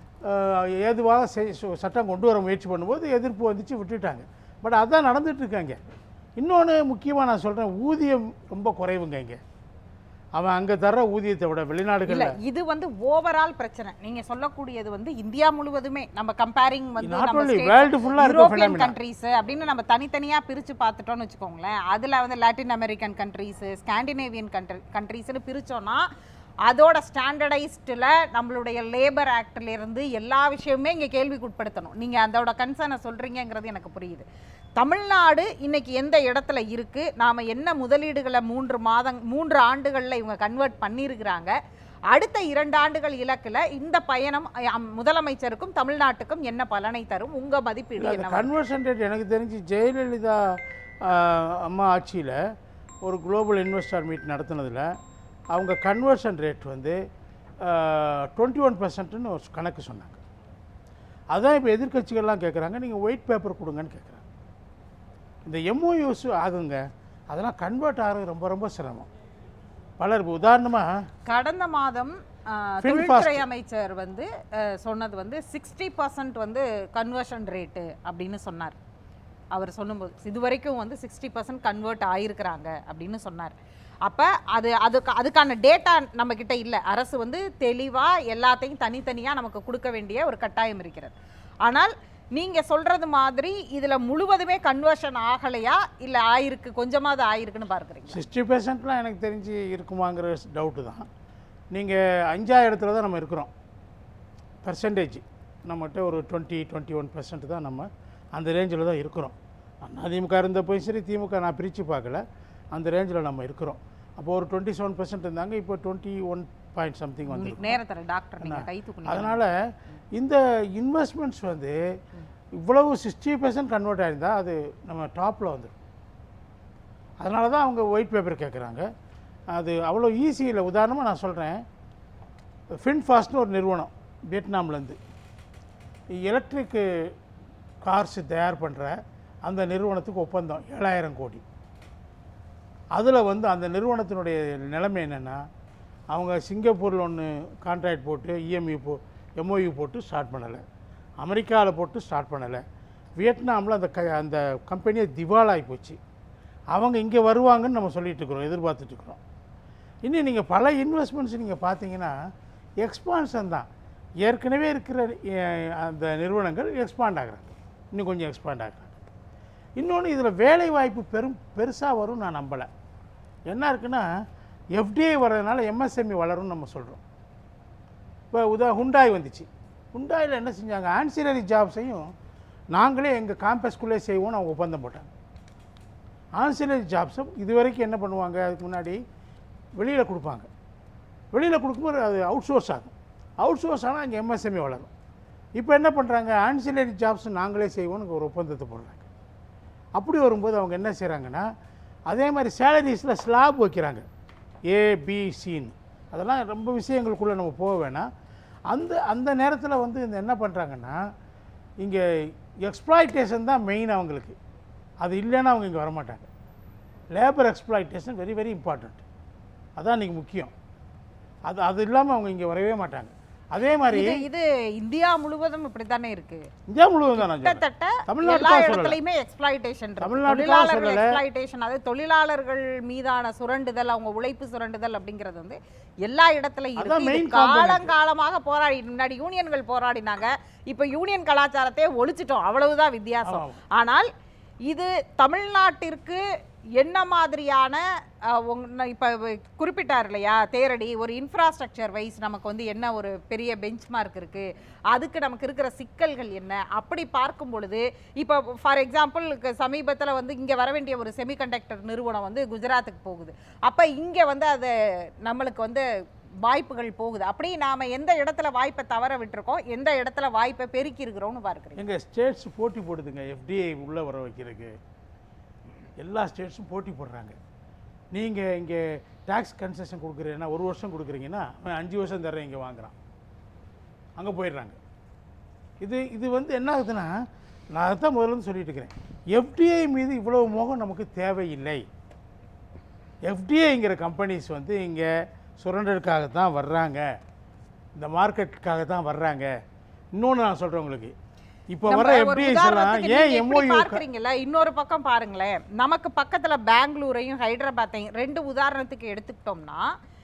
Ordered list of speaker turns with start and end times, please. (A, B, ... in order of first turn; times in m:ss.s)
0:00.2-0:05.8 A
0:06.4-0:09.4 A
0:10.4-0:12.4 A
0:12.1-0:26.0 B
0:17.0-0:19.0 A
0:26.6-0:34.2 B
0:34.8-0:41.5 B
0:42.1-0:48.5 B
0:48.0-0:52.4 A
0:53.0-0:54.9 A
0:55.5-0:57.0 A
0:57.6-1:00.2 A
1:01.3-1:04.2 A
1:05.4-1:09.1 A
1:10.0-1:11.0 A
1:11.2-1:18.8 B
1:12.8-1:13.4 A
1:19.5-1:38.2 B
1:38.1-1:41.1 A
1:41.7-1:43.5 A
1:44.6-1:57.8 A
1:57.3-1:59.4 B
1:58.4-1:59.6 A
2:00.1-2:01.8 A
2:02.6-2:05.8 A
2:07.2-2:08.8 A
2:09.5-2:11.6 A
2:12.7-2:15.0 A
2:16.1-2:16.8 A
2:17.8-2:21.4 A
2:22.9-2:25.4 A
2:26.1-2:30.6 A
2:31.2-2:32.6 A
2:33.2-2:36.0 A
2:36.7-2:39.2 A
2:40.0-2:42.1 A
2:42.8-2:43.7 A
2:44.2-2:49.0 A
2:49.8-2:52.7 A
2:53.5-2:54.1 A
2:54.7-2:57.0 A
2:58.3-3:02.0 A
3:02.7-3:05.1 A
3:06.4-3:09.0 A
3:09.8-3:10.5 A
3:11.3-3:14.9 A
3:15.6-3:19.1 A
3:20.0-3:21.4 A
3:22.1-3:24.0 A
3:24.7-3:28.1 A
3:28.7-3:31.0 A
3:32.6-3:34.3 A
3:35.0-3:36.3 A
3:37.1-3:39.0 A
3:39.8-3:40.5 A
3:41.5-3:44.2 A
3:43.9-3:46.5 B
3:46.7-3:49.0 A
3:47.1-4:04.1 B
3:50.0-3:51.2 A
3:56.8-3:57.9 A
4:03.2-4:03.6 A
4:04.7-4:06.2 B
4:06.8-4:25.8 B
4:26.4-4:31.8 B
4:31.8-4:34.7 A
4:36.0-4:37.4 A
4:38.1-4:42.9 A
4:44.2-4:44.8 A
4:45.8-4:47.1 A
4:47.7-4:51.8 A
4:53.2-4:57.0 A
4:58.0-4:59.5 A
5:00.1-5:01.1 A
5:01.7-5:04.0 A
5:01.8-5:09.8 B